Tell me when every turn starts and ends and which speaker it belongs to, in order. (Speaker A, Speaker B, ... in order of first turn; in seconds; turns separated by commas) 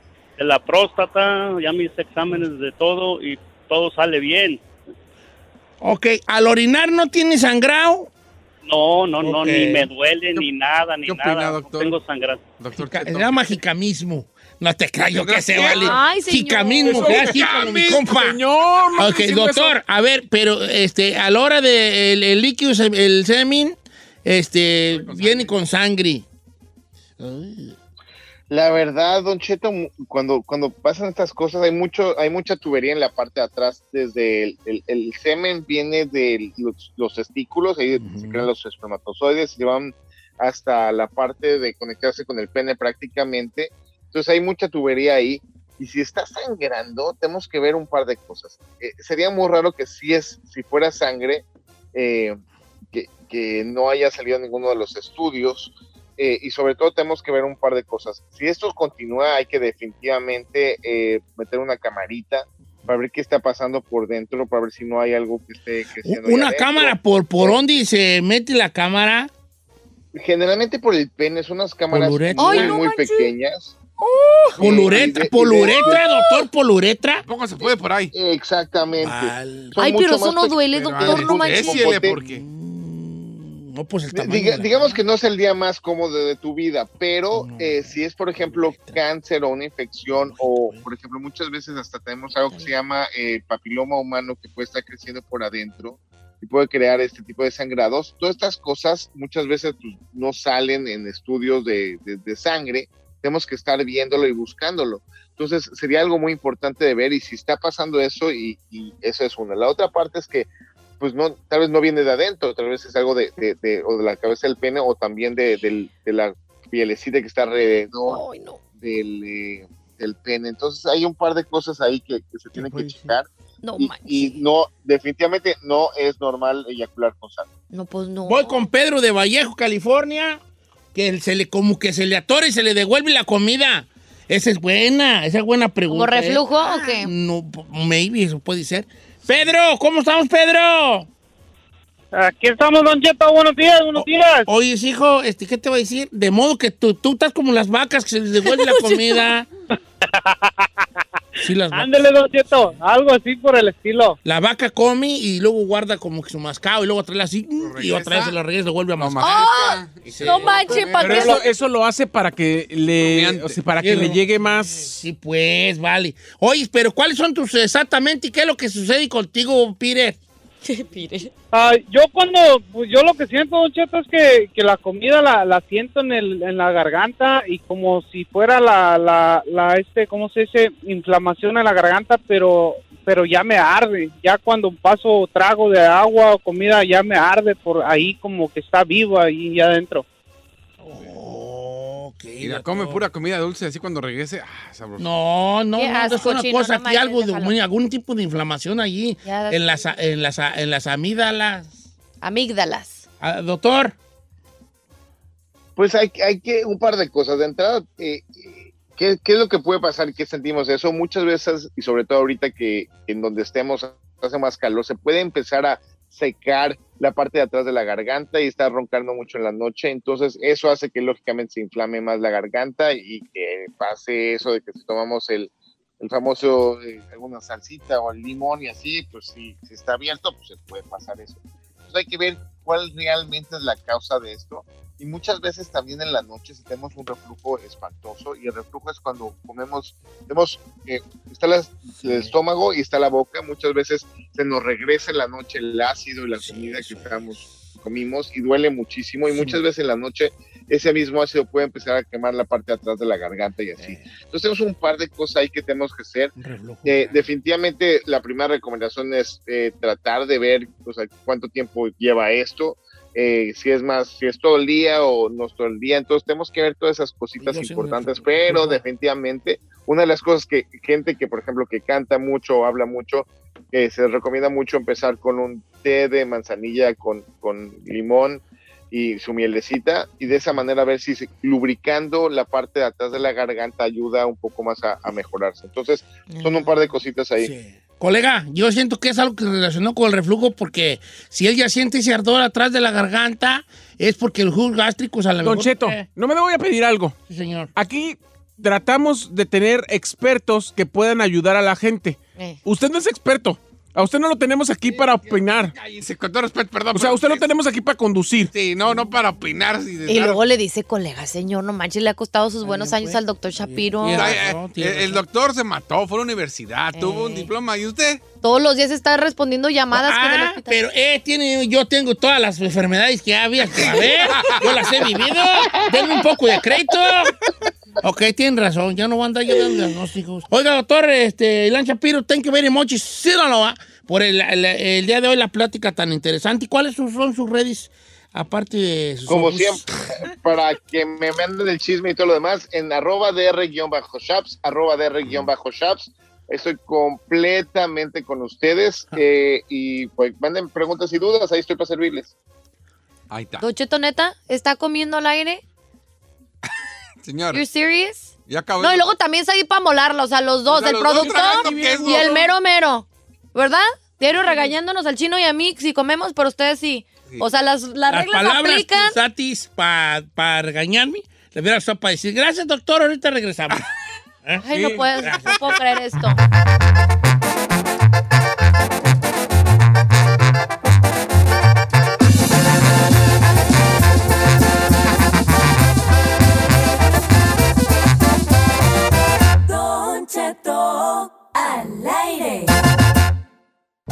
Speaker A: 0.4-4.6, Speaker B: 5.8-8.1, Speaker A: 8.6-12.5, Speaker B: 9.2-9.9, Speaker C: 11.1-11.9, Speaker C: 12.6-13.5, Speaker B: 12.8-18.4, Speaker C: 15.1-16.0, Speaker D: 15.6-17.2, Speaker E: 16.9-19.8, Speaker C: 17.2-18.1, Speaker B: 19.0-26.2, Speaker C: 24.9-25.6, Speaker B: 27.2-27.8, Speaker F: 28.5-52.4, Speaker B: 38.0-38.5, Speaker F: 52.9-67.6, Speaker B: 66.0-69.3, Speaker F: 70.1-73.8, Speaker B: 71.9-72.8, Speaker D: 72.4-73.3, Speaker F: 74.6-76.0, Speaker B: 74.6-77.3, Speaker C: 77.2-78.1, Speaker F: 78.1-82.1, Speaker B: 79.0-79.8, Speaker D: 79.8-82.1, Speaker C: 80.7-82.4, Speaker B: 82.0-84.9, Speaker F: 84.1-110.5, Speaker B: 87.3-89.0, Speaker B: 90.2-90.8, Speaker F: 111.0-118.2, Speaker D: 118.0-118.6, Speaker F: 118.8-127.5, Speaker B: 122.5-123.2, Speaker D: 123.6-124.4, Speaker D: 127.7-128.6, Speaker B: 128.3-130.4, Speaker B: 130.9-141.1, Speaker D: 135.9-137.1, Speaker G: 142.1-144.5, Speaker B: 143.9-149.5, Speaker G: 150.2-150.5, Speaker B: 151.4-151.9, Speaker G: 151.7-154.2, Speaker B: 154.2-159.3, Speaker C: 157.6-158.4, Speaker C: 159.0-161.4, Speaker D: 159.2-161.5, Speaker B: 160.1-160.6, Speaker E: 160.9-164.9, Speaker C: 163.0-163.6, Speaker B: 163.8-170.2, Speaker D: 170.6-171.3, Speaker G: 171.5-190.1, Speaker B: 190.8-193.0, Speaker C: 192.4-195.1, Speaker B: 195.0-201.8, Speaker D: 195.7-197.6, Speaker D: 199.2-199.9, Speaker D: 202.2-203.1, Speaker B: 203.2-204.0, Speaker F: 205.8-256.3, Speaker B: 242.0-242.3, Speaker B: 246.4-247.3, Speaker B: 249.3-249.6, Speaker B: 253.8-254.1, Speaker B: 256.4-257.2, Speaker F: 256.9-287.5, Speaker B: 267.4-268.8, Speaker D: 286.3-286.7, Speaker B: 287.4-296.1, Speaker E: 295.4-297.2, Speaker B: 297.3-297.7, Speaker E: 297.8-305.7, Speaker C: 304.9-307.5, Speaker E: 306.9-308.5, Speaker C: 308.5-310.4, Speaker D: 310.1-314.4, Speaker B: 312.6-315.2, Speaker C: 314.1-318.2, Speaker D: 316.9-317.5, Speaker D: 318.4-320.8, Speaker B: 319.9-327.4, Speaker C: 324.3-324.9, Speaker B: 328.0-340.1, Speaker F: 339.3-352.3, Speaker C: 353.3-353.6, Speaker D: 353.6-355.6, Speaker C: 357.2-357.6, Speaker D: 357.5-369.2, Speaker C: 358.5-359.1, Speaker C: 360.7-362.5, Speaker E: 361.2-362.3, Speaker B: 368.1-373.8, Speaker D: 374.6-376.4, Speaker E: 374.7-375.1, Speaker B: 375.2-375.6, Speaker H: 389.7-392.7